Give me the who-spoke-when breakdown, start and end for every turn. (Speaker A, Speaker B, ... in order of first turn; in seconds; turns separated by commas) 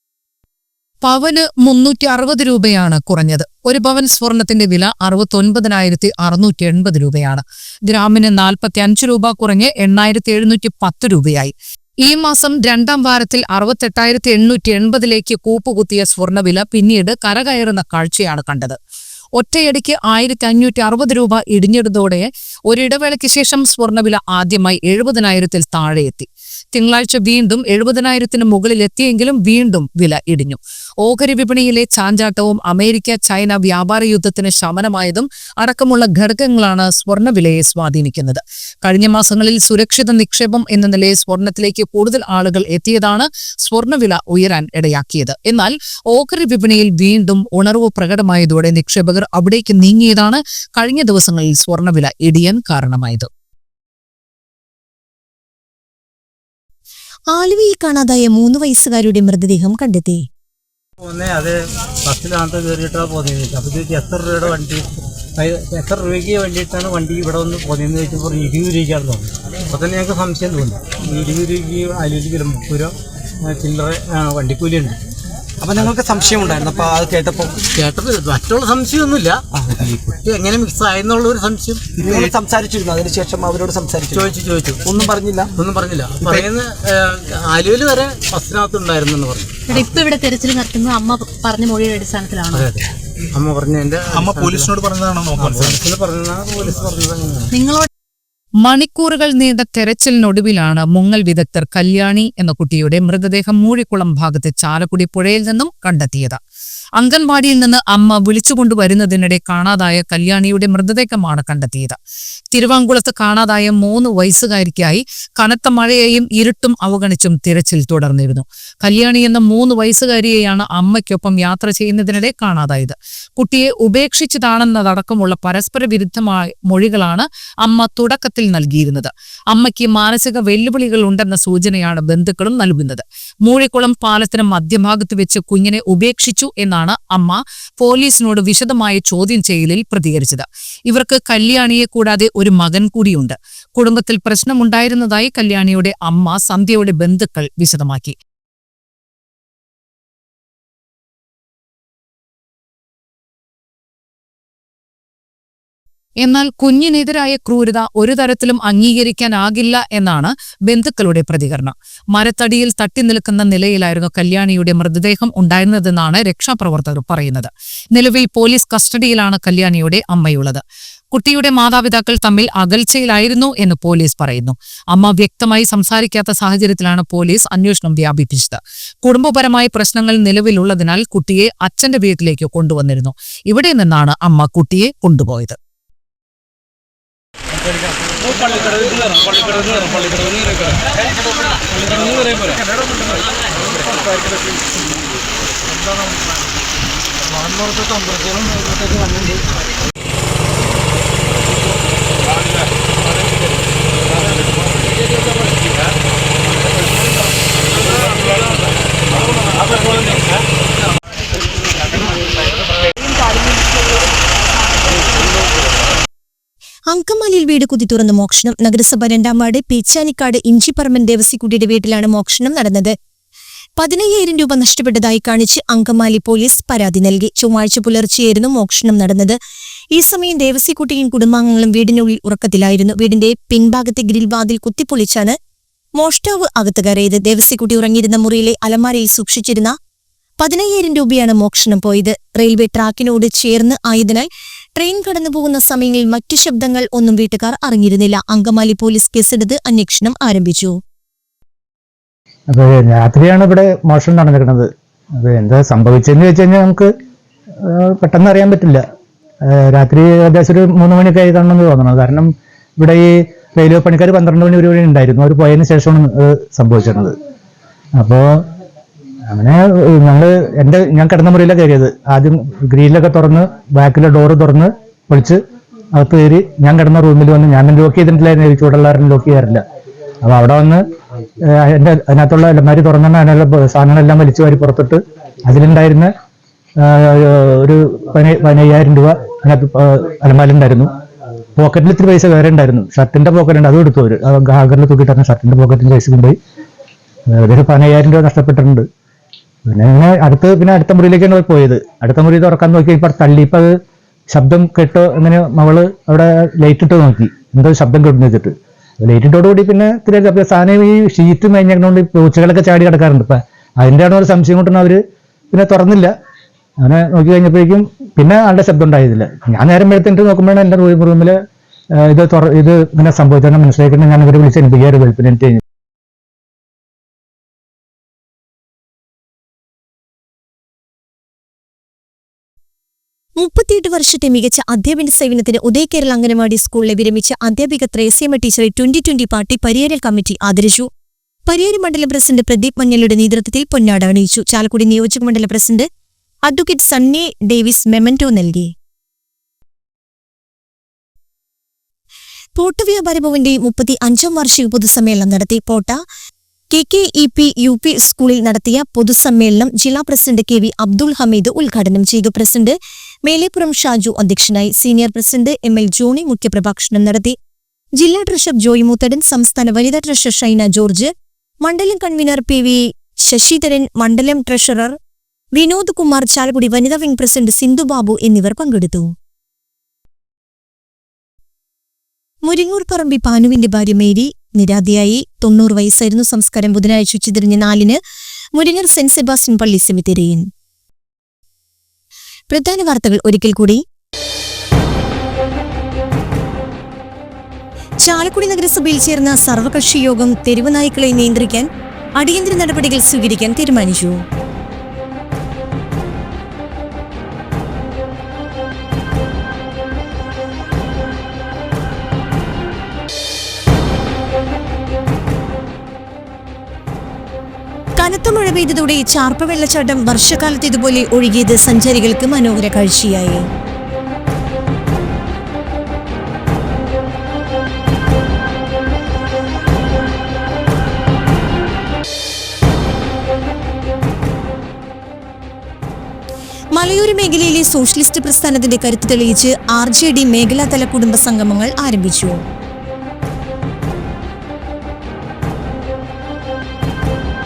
Speaker A: 1.0-11.5, Speaker A: 12.1-18.8, Speaker A: 19.4-53.3, Speaker B: 57.3-60.2, Speaker C: 61.0-64.9, Speaker C: 65.4-72.9, Speaker C: 73.5-75.0, Speaker D: 75.6-77.6, Speaker C: 77.8-82.3, Speaker D: 81.9-84.3, Speaker C: 84.1-89.5, Speaker D: 84.9-85.5, Speaker E: 89.7-92.7, Speaker C: 92.5-92.8, Speaker C: 93.3-97.5, Speaker E: 97.5-97.9, Speaker A: 98.6-106.4, Speaker A: 107.0-112.0, Speaker A: 112.5-148.2, Speaker A: 156.2-170.6, Speaker A: 171.1-185.6, Speaker C: 188.2-190.7, Speaker C: 191.7-192.6, Speaker C: 198.8-199.2, Speaker B: 216.9-222.9, Speaker B: 223.8-229.4, Speaker B: 229.9-235.3, Speaker B: 236.0-239.7, Speaker B: 240.4-250.8, Speaker F: 252.5-256.9, Speaker F: 257.6-258.8, Speaker F: 259.5-267.1, Speaker F: 268.0-268.3, Speaker F: 269.3-275.4, Speaker F: 275.9-279.6, Speaker F: 280.2-280.8, Speaker F: 281.4-286.1, Speaker F: 286.8-290.9, Speaker F: 291.6-296.4, Speaker F: 297.3-298.9, Speaker F: 299.7-303.7, Speaker F: 304.3-315.0, Speaker F: 315.5-316.1, Speaker F: 316.8-321.4, Speaker F: 322.0-325.6, Speaker B: 333.4-340.9, Speaker B: 341.5-345.9, Speaker B: 346.5-348.7, Speaker B: 352.6-355.9, Speaker B: 356.7-367.4, Speaker B: 368.0-371.1, Speaker B: 371.6-374.9, Speaker B: 375.6-379.1, Speaker B: 382.5-388.0, Speaker B: 388.6-390.5, Speaker B: 392.5-393.8, Speaker B: 398.1-401.7, Speaker B: 402.2-404.2, Speaker B: 418.0-423.4, Speaker B: 436.8-442.4